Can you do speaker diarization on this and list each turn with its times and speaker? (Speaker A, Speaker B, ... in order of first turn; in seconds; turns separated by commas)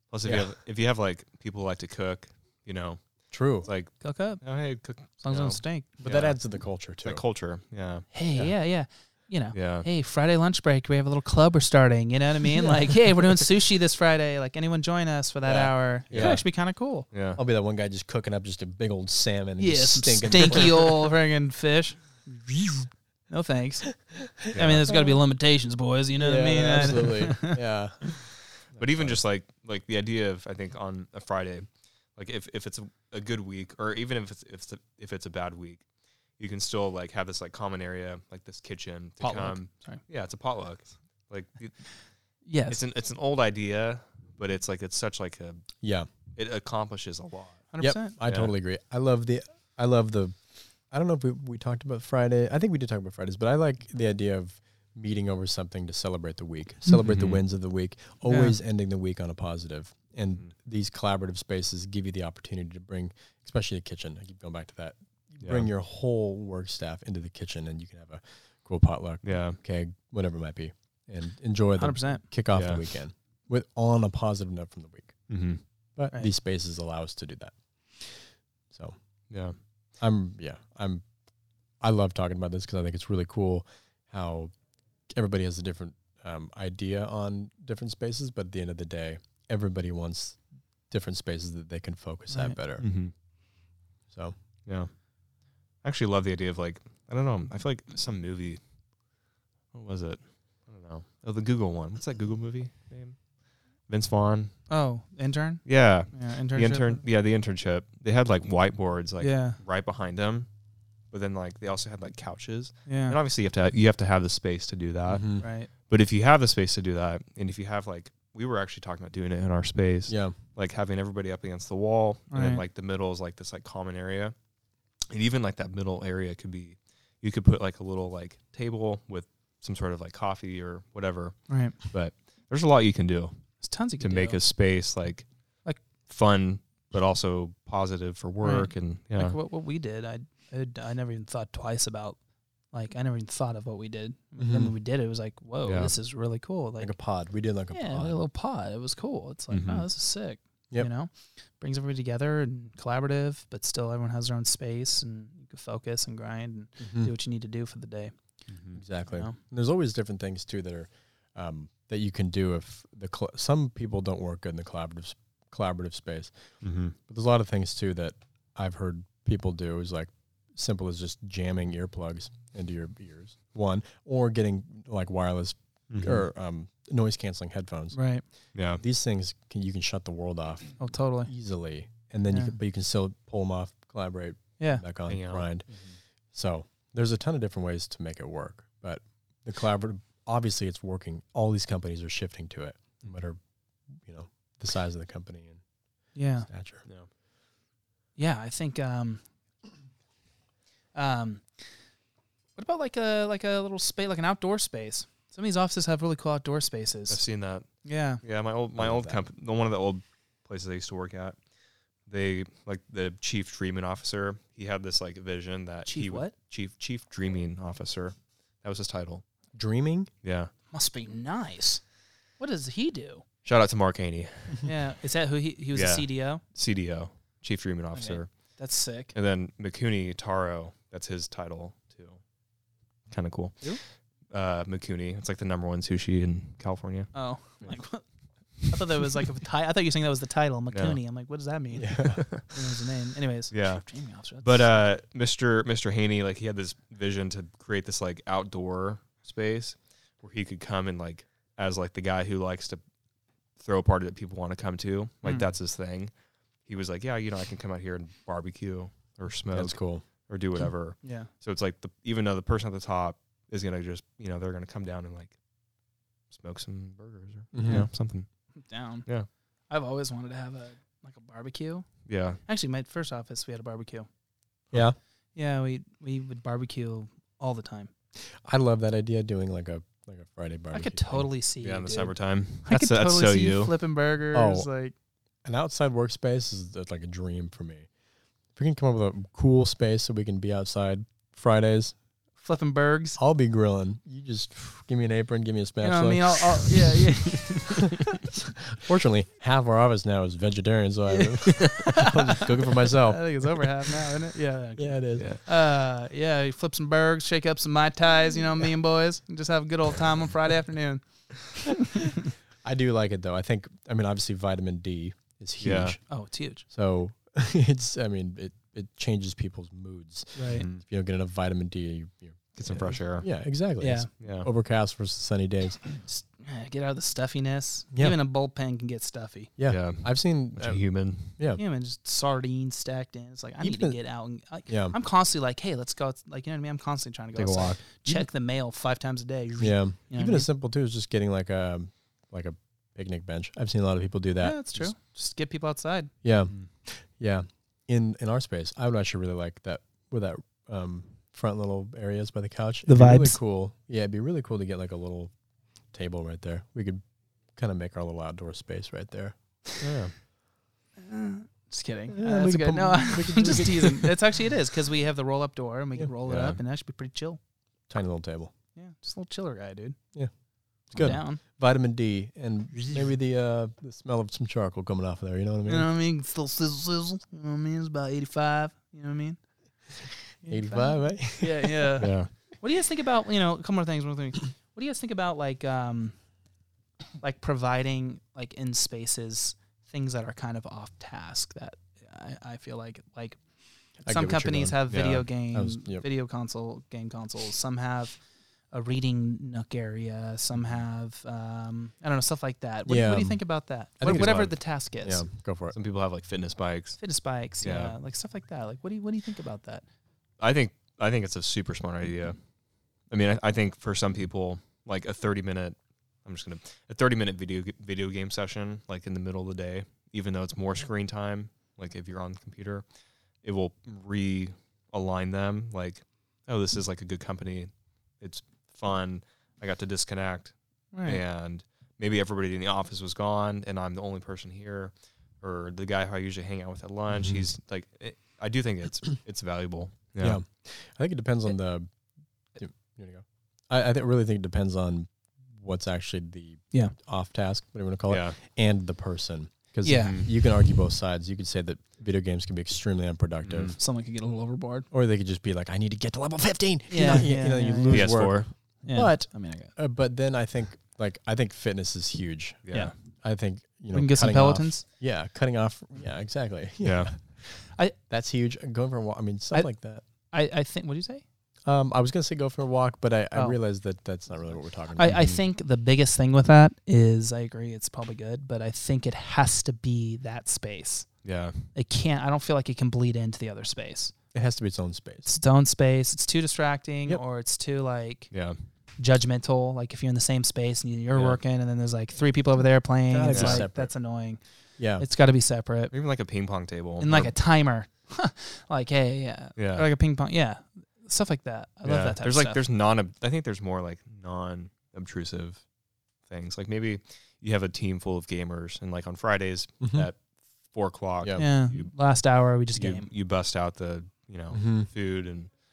Speaker A: 0.1-3.0, Speaker B: 0.2-0.5, Speaker B: 3.3-3.7, Speaker A: 3.5-6.4, Speaker C: 4.0-4.6, Speaker C: 5.2-5.9, Speaker B: 6.0-7.2, Speaker A: 7.0-8.1, Speaker C: 8.1-17.1, Speaker A: 9.5-9.9, Speaker B: 15.4-16.4, Speaker A: 16.1-16.4, Speaker A: 17.1-17.4, Speaker B: 17.4-21.1, Speaker C: 19.6-27.6, Speaker A: 24.5-24.8, Speaker B: 24.9-25.1, Speaker B: 26.1-29.2, Speaker A: 28.8-35.8, Speaker A: 36.4-42.0, Speaker C: 39.2-40.0, Speaker C: 42.4-42.8, Speaker A: 42.7-45.6, Speaker B: 45.8-46.1, Speaker A: 46.4-47.7, Speaker C: 47.7-48.2, Speaker B: 47.8-75.2, Speaker A: 48.2-48.5, Speaker A: 57.0-57.4, Speaker C: 58.2-58.6, Speaker A: 65.4-65.7, Speaker A: 69.2-69.6, Speaker C: 71.8-72.2, Speaker A: 72.5-72.9, Speaker A: 75.3-75.6, Speaker B: 76.0-79.0, Speaker A: 79.3-79.5, Speaker B: 80.0-81.0, Speaker B: 81.8-84.5, Speaker B: 85.1-92.9, Speaker C: 92.3-92.5, Speaker A: 92.8-93.1, Speaker B: 94.1-94.3, Speaker A: 95.8-98.6, Speaker A: 99.7-103.3, Speaker A: 103.8-104.5, Speaker C: 104.7-107.0, Speaker A: 105.7-110.5, Speaker C: 109.2-109.6, Speaker A: 111.1-124.3, Speaker C: 112.9-113.2, Speaker B: 115.1-115.5, Speaker C: 115.4-115.7, Speaker B: 120.1-120.3, Speaker C: 122.3-122.6, Speaker A: 125.1-133.4, Speaker C: 131.5-131.8, Speaker C: 133.6-134.4, Speaker A: 134.0-135.2, Speaker A: 136.1-139.3, Speaker C: 138.4-142.2, Speaker C: 142.7-147.1, Speaker B: 144.4-144.7, Speaker A: 145.6-145.9, Speaker B: 146.8-148.2, Speaker C: 147.7-158.1, Speaker A: 149.5-149.8, Speaker B: 156.8-157.1, Speaker A: 158.5-158.8, Speaker B: 158.7-166.3, Speaker C: 159.1-159.3, Speaker A: 166.6-166.9, Speaker B: 167.1-178.0, Speaker A: 175.9-176.2, Speaker C: 177.9-178.2, Speaker A: 178.5-178.8, Speaker B: 178.5-185.8, Speaker C: 180.8-181.3, Speaker C: 184.6-184.8, Speaker A: 185.1-185.9, Speaker B: 186.3-195.6, Speaker C: 196.1-196.5, Speaker B: 196.5-196.9, Speaker C: 198.2-199.2, Speaker C: 200.9-201.7, Speaker C: 202.6-207.2, Speaker A: 207.1-207.7, Speaker C: 207.8-208.2, Speaker A: 208.2-211.4, Speaker B: 208.8-209.3, Speaker A: 212.1-219.2, Speaker C: 215.8-216.3, Speaker B: 219.5-220.1, Speaker A: 220.2-220.5, Speaker C: 220.7-221.8, Speaker C: 222.4-223.2, Speaker A: 223.4-224.7, Speaker C: 224.6-226.4, Speaker A: 225.7-228.3, Speaker C: 227.9-229.1, Speaker A: 229.1-232.2, Speaker A: 233.1-233.8, Speaker A: 234.3-237.8, Speaker C: 237.1-238.0, Speaker C: 238.6-244.7, Speaker A: 240.7-241.0, Speaker B: 241.7-242.2, Speaker A: 242.2-242.5, Speaker A: 243.5-243.8, Speaker A: 244.4-252.8, Speaker A: 253.6-256.1, Speaker A: 256.6-265.4, Speaker B: 259.5-260.0, Speaker C: 261.0-261.3, Speaker A: 266.3-268.3, Speaker B: 267.5-267.9, Speaker C: 267.6-267.9, Speaker C: 268.6-269.1, Speaker C: 269.7-274.1, Speaker A: 272.1-272.4, Speaker B: 274.7-275.0, Speaker C: 275.3-277.9, Speaker B: 278.2-281.3, Speaker C: 280.7-284.9, Speaker A: 281.6-283.7, Speaker B: 284.3-284.7, Speaker B: 285.4-287.9, Speaker B: 288.5-291.9, Speaker C: 292.4-293.2, Speaker B: 293.2-297.3, Speaker C: 295.8-298.1, Speaker B: 298.7-303.7, Speaker C: 301.1-312.1, Speaker B: 304.8-305.3, Speaker B: 312.6-316.0, Speaker A: 315.6-316.0, Speaker C: 316.1-316.6, Speaker B: 316.7-325.9, Speaker C: 320.3-320.6, Speaker A: 320.5-320.8, Speaker A: 322.6-323.3, Speaker C: 323.8-324.1, Speaker A: 324.2-324.5, Speaker C: 325.8-329.5, Speaker B: 329.6-331.6, Speaker A: 329.6-331.4, Speaker C: 331.6-340.5, Speaker B: 333.6-334.0, Speaker B: 334.7-335.0, Speaker A: 337.3-337.9, Speaker B: 339.6-344.9, Speaker C: 344.4-346.1, Speaker B: 346.2-355.3, Speaker C: 352.9-353.4, Speaker B: 355.9-359.3, Speaker A: 359.8-360.1, Speaker C: 361.0-367.4, Speaker B: 362.1-364.4, Speaker B: 365.9-366.6, Speaker B: 367.9-368.5, Speaker C: 368.7-370.1, Speaker B: 370.9-375.9, Speaker C: 370.9-371.4, Speaker C: 375.7-386.2, Speaker B: 380.4-382.1, Speaker A: 382.0-382.3, Speaker C: 387.2-393.4, Speaker C: 393.9-398.2, Speaker B: 394.0-396.1, Speaker A: 394.9-395.3, Speaker C: 398.7-405.2, Speaker B: 402.9-405.8, Speaker A: 404.0-404.5, Speaker A: 405.7-407.0, Speaker C: 407.0-409.8, Speaker A: 407.6-407.9, Speaker A: 410.4-412.4, Speaker A: 413.1-422.8, Speaker A: 423.4-440.4, Speaker C: 430.9-431.2, Speaker B: 437.1-437.4, Speaker B: 440.2-441.9, Speaker B: 442.6-453.8, Speaker A: 448.1-448.4, Speaker C: 449.8-450.3, Speaker A: 449.9-450.3, Speaker A: 453.4-453.8, Speaker C: 453.8-454.9, Speaker B: 454.9-470.0, Speaker C: 456.9-459.7, Speaker A: 457.9-458.5, Speaker A: 462.6-462.9, Speaker C: 463.9-464.9, Speaker A: 466.8-467.3, Speaker C: 467.6-467.9, Speaker C: 469.5-471.2, Speaker B: 471.6-475.4, Speaker C: 474.9-481.1, Speaker A: 481.2-481.7, Speaker C: 481.7-484.1, Speaker B: 484.3-485.3, Speaker C: 485.2-488.3, Speaker A: 488.3-488.6, Speaker C: 489.0-495.9, Speaker A: 491.1-491.4, Speaker B: 493.1-493.9, Speaker A: 493.3-493.6, Speaker B: 494.8-495.1, Speaker A: 495.9-497.3, Speaker C: 497.0-502.6, Speaker A: 499.6-499.9, Speaker A: 501.8-505.7, Speaker A: 506.2-515.6, Speaker B: 509.8-510.1, Speaker B: 511.2-511.4, Speaker C: 511.4-513.1, Speaker B: 514.5-514.9